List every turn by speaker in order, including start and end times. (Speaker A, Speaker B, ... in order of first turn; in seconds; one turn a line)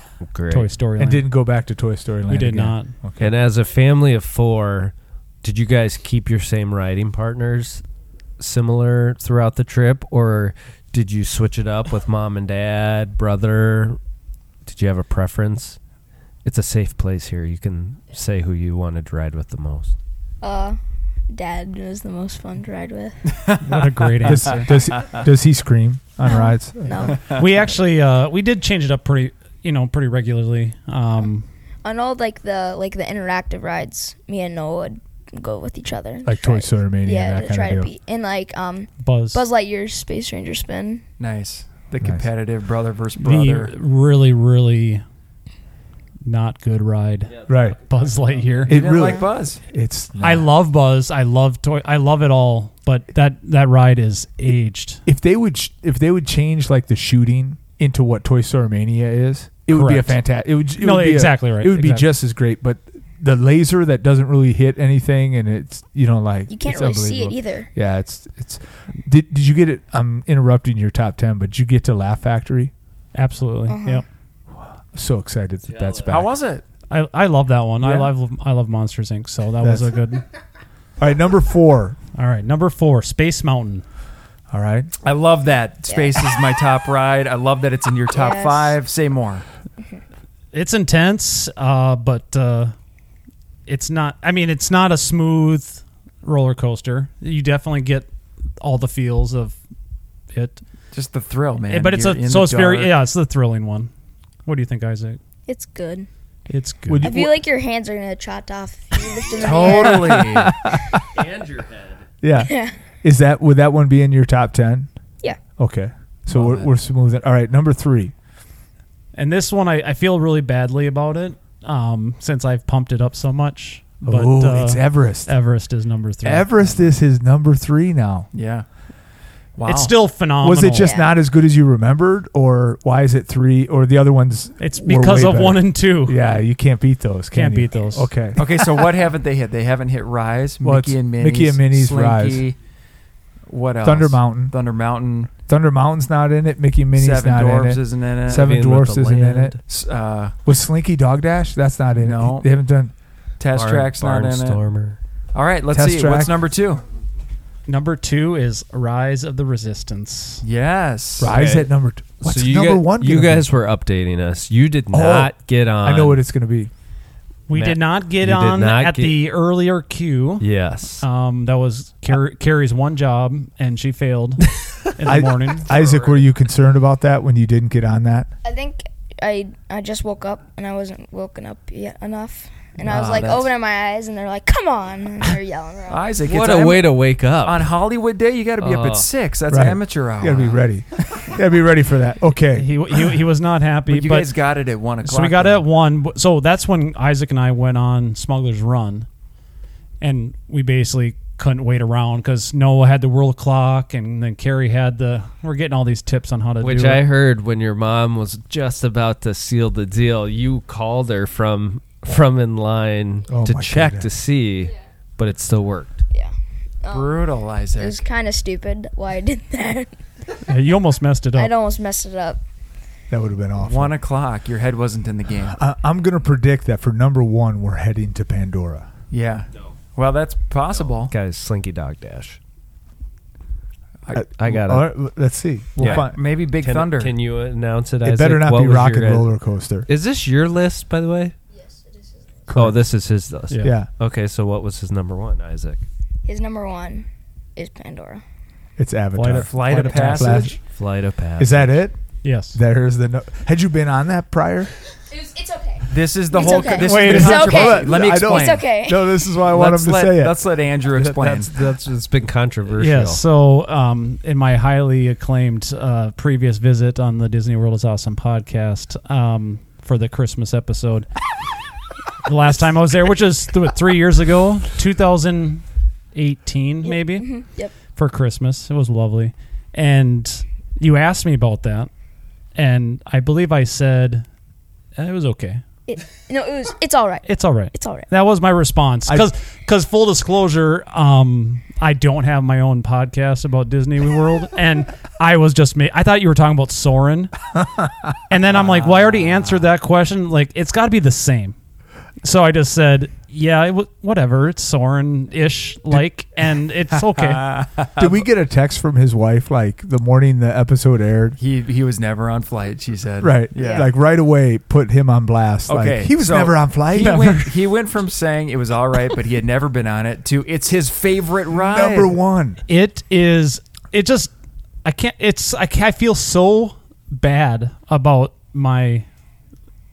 Speaker A: 0.3-0.7
Speaker B: 0.5-1.2
Speaker C: 1.0-3.3
Speaker B: 2.3-2.9
Speaker A: 3.2-7.8
Speaker A: 8.4-14.0
Speaker A: 14.6-15.8
Speaker A: 16.4-19.9
Speaker D: 20.4-20.8
Speaker D: 21.3-23.3
Speaker B: 23.6-24.7
Speaker C: 24.2-27.2
Speaker E: 24.7-25.2
Speaker D: 26.2-27.2
Speaker B: 27.3-31.4
Speaker D: 31.8-41.0
Speaker C: 36.2-37.9
Speaker B: 39.0-39.4
Speaker E: 41.2-43.7
Speaker B: 43.2-45.0
Speaker B: 46.2-48.7
Speaker A: 47.3-48.6
Speaker C: 47.5-47.8
Speaker E: 48.7-49.6
Speaker C: 48.7-50.5
Speaker D: 49.0-49.2
Speaker B: 50.2-55.0
Speaker C: 55.0-72.7
Speaker B: 59.7-60.2
Speaker B: 60.8-62.1
Speaker D: 66.5-67.7
Speaker B: 73.1-74.0
Speaker D: 73.7-74.0
Speaker C: 74.9-76.3
Speaker A: 75.7-76.2
Speaker E: 76.1-76.6
Speaker B: 76.9-80.2
Speaker C: 77.8-78.1
Speaker C: 79.6-79.9
Speaker C: 81.0-82.0
Speaker B: 82.1-83.8
Speaker C: 84.5-84.9
Speaker E: 85.0-89.4
Speaker D: 85.9-86.2
Speaker D: 88.1-88.8
Speaker B: 90.5-92.7
Speaker B: 93.7-98.1
Speaker B: 98.6-99.5
Speaker B: 100.3-100.6
Speaker E: 100.9-102.9
Speaker B: 101.7-103.9
Speaker B: 104.5-105.2
Speaker D: 105.5-106.1
Speaker B: 106.5-107.1
Speaker C: 106.9-107.4
Speaker D: 107.0-110.2
Speaker E: 109.4-110.6
Speaker C: 109.5-111.0
Speaker A: 111.1-112.0
Speaker C: 112.2-114.9
Speaker D: 112.3-112.7
Speaker C: 115.6-118.1
Speaker E: 116.3-116.7
Speaker B: 119.1-126.7
Speaker C: 124.0-125.3
Speaker C: 126.2-128.3
Speaker E: 128.3-128.7
Speaker E: 129.6-129.9
Speaker B: 129.6-130.9
Speaker C: 130.4-138.5
Speaker D: 130.8-131.1
Speaker B: 134.6-136.2
Speaker B: 137.3-138.1
Speaker E: 138.3-142.6
Speaker C: 140.6-142.4
Speaker E: 143.5-145.3
Speaker C: 143.8-144.5
Speaker C: 145.5-149.6
Speaker E: 146.9-148.5
Speaker A: 148.3-149.6
Speaker E: 149.7-150.4
Speaker C: 150.4-152.9
Speaker E: 152.0-152.5
Speaker E: 153.4-154.6
Speaker A: 153.5-155.0
Speaker E: 155.3-156.8
Speaker C: 155.7-156.4
Speaker B: 157.7-160.4
Speaker E: 160.4-161.4
Speaker C: 161.2-163.5
Speaker A: 161.3-161.7
Speaker A: 162.2-166.2
Speaker C: 164.9-166.7
Speaker B: 167.5-170.4
Speaker A: 167.5-169.2
Speaker A: 170.4-171.0
Speaker B: 171.0-175.7
Speaker C: 175.0-178.3
Speaker A: 175.7-176.2
Speaker D: 178.4-186.1
Speaker E: 182.8-183.5
Speaker E: 185.9-191.3
Speaker A: 186.2-187.7
Speaker A: 188.6-189.1
Speaker C: 189.5-193.1
Speaker B: 192.5-194.3
Speaker E: 193.9-195.6
Speaker B: 195.0-199.1
Speaker B: 200.0-207.0
Speaker A: 206.6-216.0
Speaker C: 213.3-214.1
Speaker D: 216.1-217.2
Speaker E: 216.9-218.0
Speaker D: 217.8-219.9
Speaker B: 220.5-221.5
Speaker D: 221.3-222.4
Speaker C: 223.1-224.0
Speaker E: 223.6-225.6
Speaker C: 225.5-228.9
Speaker E: 229.1-231.1
Speaker A: 231.0-232.4
Speaker C: 234.1-236.2
Speaker A: 234.4-234.9
Speaker A: 235.8-239.3
Speaker E: 235.8-237.1
Speaker C: 238.0-239.9
Speaker A: 239.9-241.3
Speaker D: 241.6-242.2
Speaker C: 242.5-242.8
Speaker A: 242.5-245.8
Speaker B: 243.5-243.7
Speaker C: 243.6-243.9
Speaker D: 246.2-248.2
Speaker C: 248.8-250.5
Speaker E: 249.2-250.6
Speaker B: 249.2-250.5
Speaker A: 250.7-251.8
Speaker C: 251.4-252.0
Speaker B: 252.2-252.6
Speaker C: 252.5-254.7
Speaker D: 255.1-259.2
Speaker E: 255.9-258.7
Speaker B: 256.4-257.6
Speaker C: 257.0-260.4
Speaker E: 259.5-261.5
Speaker A: 260.9-263.2
Speaker B: 262.8-271.1
Speaker B: 272.2-277.3
Speaker D: 276.8-277.7
Speaker B: 277.8-281.9
Speaker B: 282.5-284.2
Speaker B: 284.9-285.6
Speaker D: 285.9-288.1
Speaker B: 287.3-297.3
Speaker B: 298.3-301.6
Speaker B: 302.2-307.5
Speaker E: 307.2-308.2
Speaker C: 308.0-311.4
Speaker E: 311.4-313.9
Speaker C: 313.2-317.6
Speaker D: 313.6-313.9
Speaker E: 315.7-322.2
Speaker C: 321.5-322.6
Speaker B: 322.7-324.3
Speaker B: 324.8-329.1